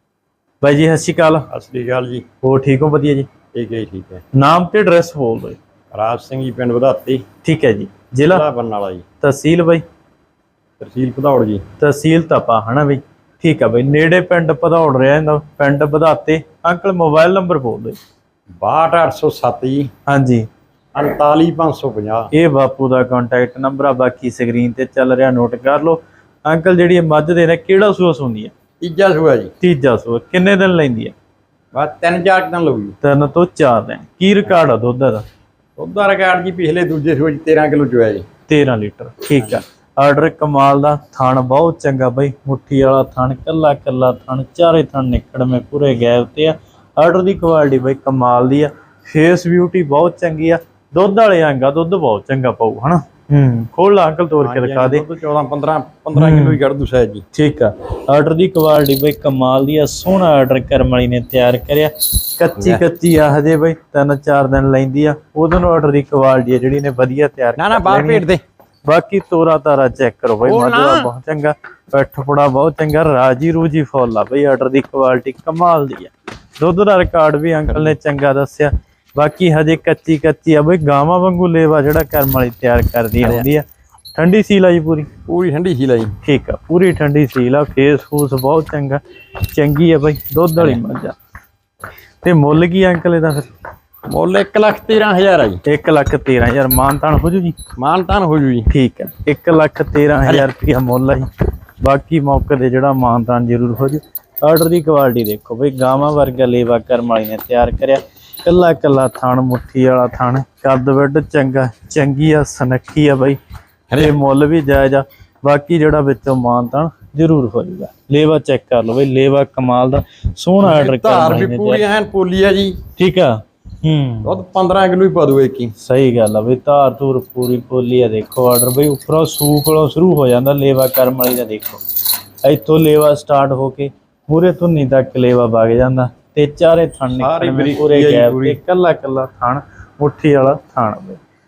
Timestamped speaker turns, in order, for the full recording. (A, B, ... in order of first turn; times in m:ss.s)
0:00.6-0:01.5 A
0:01.5-0:02.2 B
0:02.4-0:03.3 A
0:03.5-0:04.2 B
0:04.3-0:05.6 A
0:05.9-0:07.2 B
0:07.4-0:08.4 A
0:08.2-0:09.0 B
0:09.2-0:09.8 A
0:10.8-0:11.6 B
0:11.8-0:18.0 A
0:18.6-0:19.9 B
0:20.1-0:20.4 A
0:20.9-0:22.3 B
0:22.3-0:28.5 A
0:28.8-0:29.5 B
0:29.6-0:31.1 A
0:31.7-0:32.9 B
0:33.0-0:35.2 A
0:35.8-0:38.2 B
0:38.5-0:55.0 A
0:39.4-0:39.6 B
0:54.4-0:57.2 B
0:56.1-0:56.6 A
0:57.3-1:08.2 A
1:02.6-1:02.8 B
1:07.6-1:08.4 B
1:08.8-1:25.1 A
1:10.4-1:11.1 B
1:17.7-1:17.9 B
1:23.2-1:23.5 B
1:25.3-1:26.1 B
1:26.2-1:31.2 A
1:32.2-1:33.5 A
1:34.1-1:35.6 B
1:35.6-1:37.6 A
1:37.8-1:38.7 B
1:38.7-1:41.3 A
1:40.2-1:40.5 B
1:41.8-1:53.4 A
1:53.9-1:54.2 B
1:54.0-2:01.8 A
2:00.6-2:02.8 B
2:03.0-2:04.4 A
2:04.2-2:05.7 B
2:05.8-2:11.8 A
2:12.4-2:21.2 A
2:17.2-2:18.6 B